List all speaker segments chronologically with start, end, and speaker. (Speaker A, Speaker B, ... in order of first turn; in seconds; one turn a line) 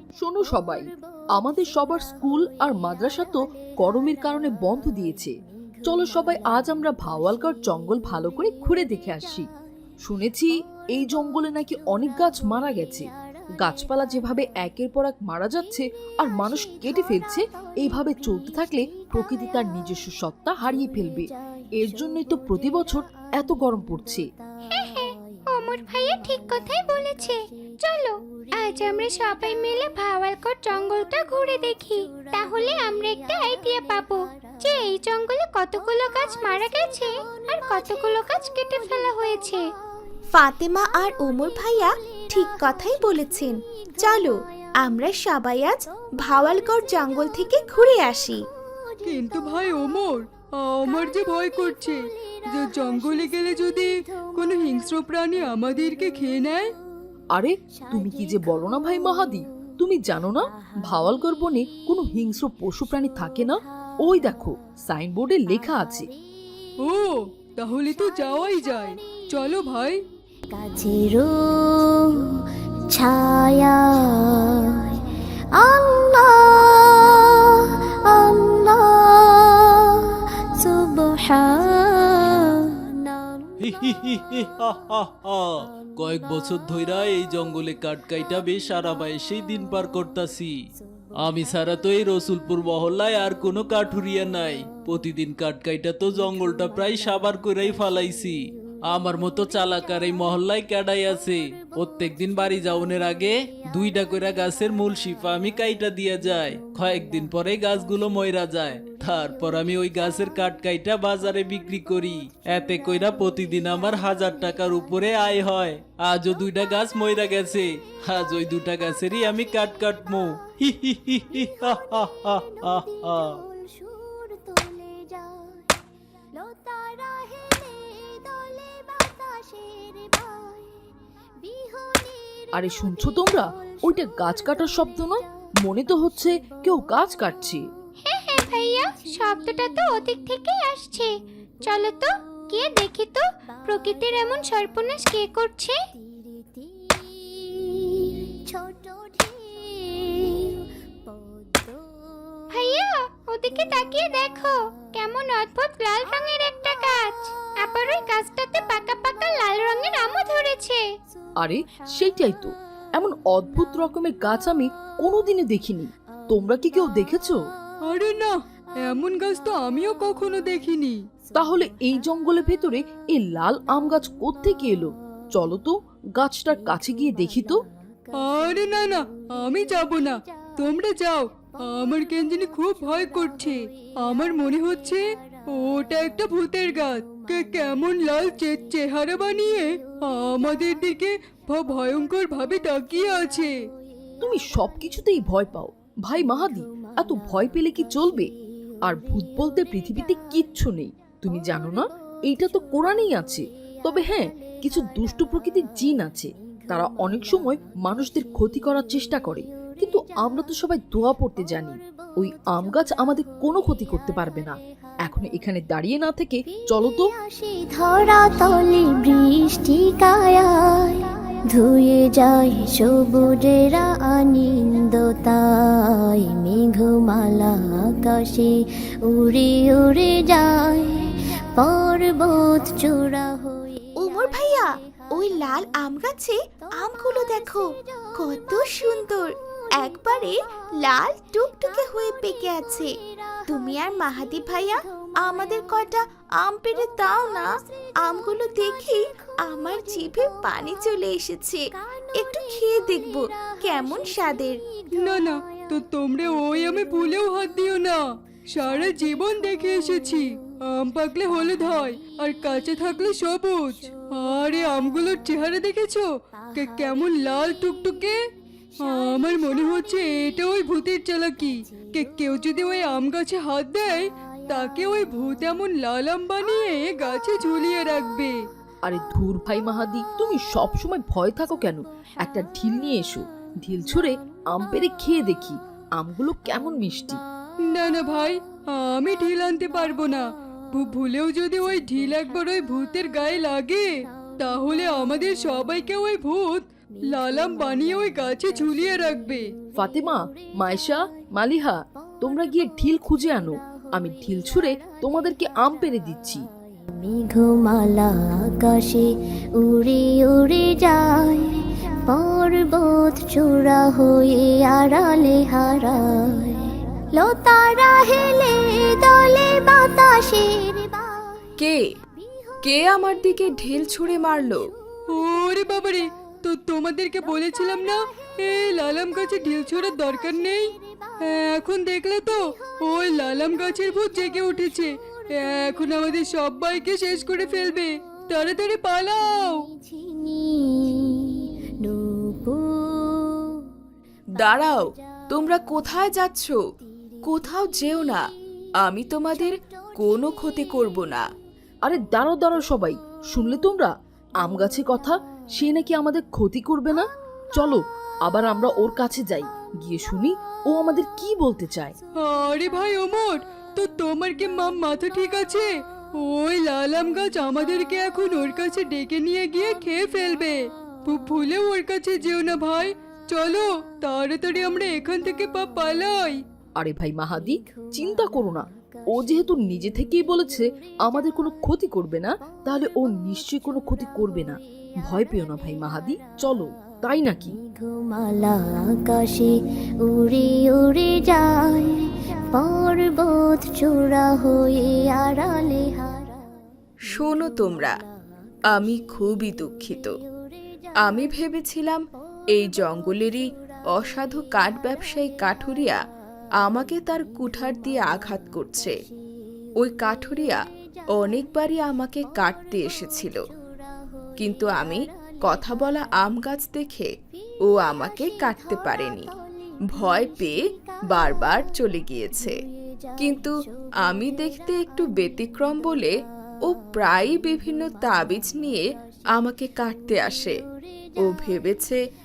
Speaker A: 0.2-9.5
Speaker A: 10.0-13.1
Speaker A: 13.6-24.2
Speaker B: 24.7-39.6
Speaker C: 40.3-48.4
Speaker D: 49.0-52.0
Speaker D: 52.5-56.7
Speaker A: 57.3-66.1
Speaker D: 66.8-70.0
Speaker E: 70.5-72.4
Speaker E: 72.9-74.9
Speaker E: 75.5-80.0
Speaker E: 80.6-83.5
Speaker F: 83.6-90.5
Speaker F: 91.2-98.4
Speaker F: 98.9-123.3
Speaker E: 123.4-125.7
Speaker E: 126.3-130.7
Speaker E: 131.4-132.5
Speaker A: 132.5-137.6
Speaker B: 138.0-141.1
Speaker B: 141.6-145.8
Speaker E: 146.4-152.0
Speaker B: 152.5-160.8
Speaker A: 161.4-167.4
Speaker D: 167.9-171.0
Speaker A: 171.3-177.6
Speaker D: 178.2-193.5
Speaker A: 194.2-198.3
Speaker A: 198.8-217.1
Speaker E: 217.2-233.9
Speaker C: 234.0-242.9
Speaker C: 243.5-251.6
Speaker C: 252.1-254.6
Speaker D: 255.0-258.0
Speaker D: 258.5-268.1
Speaker D: 268.8-278.4
Speaker A: 278.8-287.2
Speaker D: 287.7-299.5
Speaker A: 299.8-306.4
Speaker E: 306.9-321.3
Speaker G: 322.6-324.6
Speaker D: 325.1-330.7
Speaker D: 331.2-339.6
Speaker E: 339.8-343.6
Speaker G: 344.4-346.6
Speaker G: 347.2-348.2
Speaker G: 348.8-351.2
Speaker A: 351.8-361.9
Speaker D: 362.2-365.7
Speaker D: 366.2-376.4
Speaker A: 376.8-387.6
Speaker E: 387.6-392.0
Speaker E: 392.5-396.5
Speaker G: 397.1-397.9
Speaker G: 398.7-400.1
Speaker G: 401.0-406.0
Speaker G: 406.6-408.9
Speaker G: 409.8-410.6
Speaker G: 411.1-413.4
Speaker G: 414.4-417.1
Speaker G: 417.7-419.3
Speaker G: 419.9-420.6
Speaker G: 421.1-422.6
Speaker G: 423.2-426.1
Speaker G: 426.7-430.6
Speaker G: 431.2-432.0